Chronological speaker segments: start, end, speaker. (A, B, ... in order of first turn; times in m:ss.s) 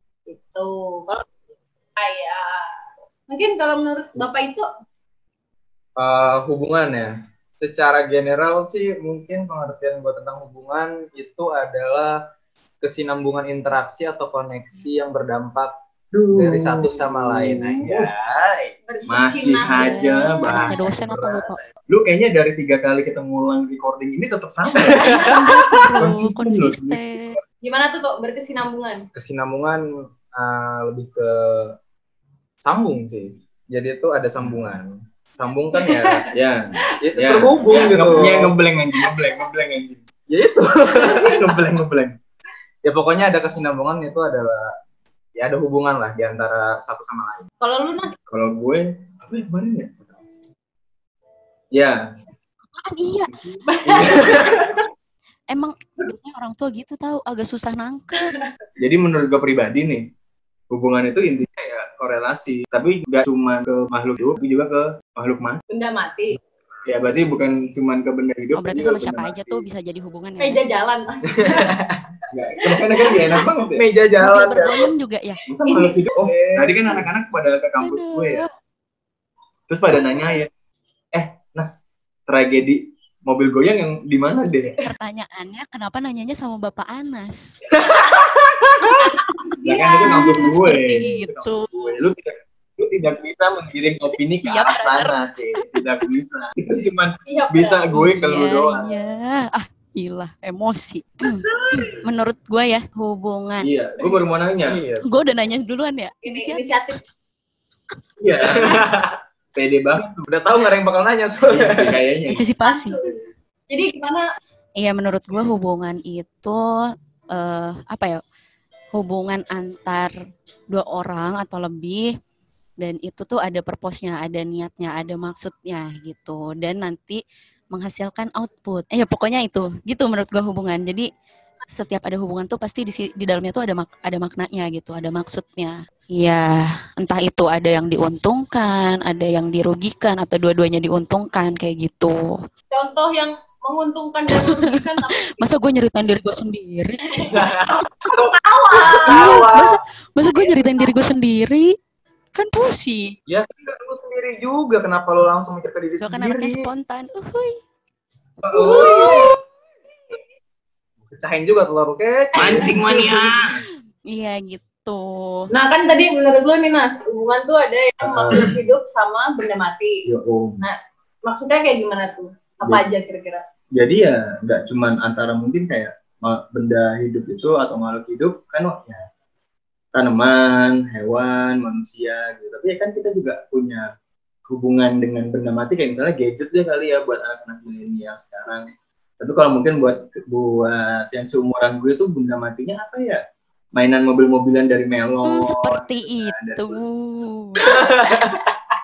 0:00.3-0:01.2 A
0:02.0-0:02.6 A
0:03.3-0:04.7 A
0:06.0-0:12.2 B
0:12.8-0:15.7 B
0:16.1-0:18.1 C
0:16.3-0:18.7 B
0:18.9-0:20.4 A
0:19.1-0:20.8 C
0:19.7-0:21.6 D
0:20.4-0:21.5 B
0:21.9-0:25.4 C
0:24.9-0:27.4 D
0:26.0-0:27.0 C
0:27.6-0:29.0 A
0:29.1-0:31.7 B
0:32.6-0:36.3 B
0:34.4-0:34.8 C
0:35.8-0:36.0 A
0:36.3-0:40.0 C
0:37.0-0:38.5 B
0:37.6-0:38.3 A
0:40.3-0:41.4 B
0:40.9-0:41.5 A
0:41.2-0:42.2 C
0:42.8-0:44.7 B
0:45.4-0:47.4 B
0:47.6-0:48.2 A
0:48.3-0:50.2 C
0:51.7-0:52.0 C
0:52.7-0:53.3 D
0:53.6-0:54.8 A
0:53.9-0:54.4 C
0:55.5-0:58.3 D
0:58.8-1:00.0 C
1:00.7-1:05.6 C
1:05.7-1:06.4 A
1:06.8-1:09.6 C
1:08.5-1:10.6 D
1:10.4-1:11.8 A
1:11.6-1:11.8 B
1:12.3-1:13.8 C
1:13.0-1:13.3 A
1:13.7-1:14.9 B
1:14.2-1:15.4 D
1:15.5-1:18.4 C
1:15.7-1:16.1 A
1:16.2-1:17.0 B
1:17.8-1:18.5 D
1:19.7-1:20.5 C
1:21.1-1:21.7 C
1:22.3-1:24.8 C
1:24.8-1:27.5 D
1:27.8-1:28.3 C
1:29.0-1:30.5 A
1:29.6-1:38.9 C
1:30.0-1:31.7 D
1:34.2-1:36.0 D
1:37.2-1:38.4 A
1:37.9-1:43.7 D
1:43.6-1:44.8 C
1:44.6-1:45.1 B
1:45.0-1:46.6 D
1:46.2-1:47.0 A
1:48.2-1:48.8 C
1:48.5-1:49.2 B
1:49.5-1:50.2 C
1:50.2-1:52.0 B
1:51.5-1:52.4 C
1:52.3-1:53.0 D
1:52.6-1:53.2 A
1:53.7-1:54.2 A
1:54.8-1:56.6 D
1:57.3-1:58.2 D
1:58.9-2:00.1 D
2:00.7-2:02.0 D
2:02.8-2:07.2 D
2:07.7-2:11.1 D
2:11.7-2:22.3 D
2:22.7-2:25.5 A
2:24.3-2:24.8 D
2:25.3-2:27.0 D
2:27.2-2:27.4 A
2:27.3-2:29.8 B
2:28.3-2:29.5 A
2:29.0-2:31.7 D
2:30.3-2:30.9 A
2:32.3-2:33.2 D
2:33.3-2:36.7 B
2:36.0-2:37.6 D
2:38.4-2:39.3 B
2:38.5-2:39.4 A
2:41.1-2:43.2 B
2:42.4-2:43.6 C
2:44.1-2:45.5 D
2:45.5-2:50.0 A
2:48.0-2:48.5 C
2:50.0-2:50.6 C
2:50.6-2:53.4 A
2:53.7-2:59.0 C
2:59.9-3:03.8 C
3:04.5-3:13.2 C
3:13.7-3:16.8 C
3:15.2-3:17.7 D
3:17.6-3:18.3 C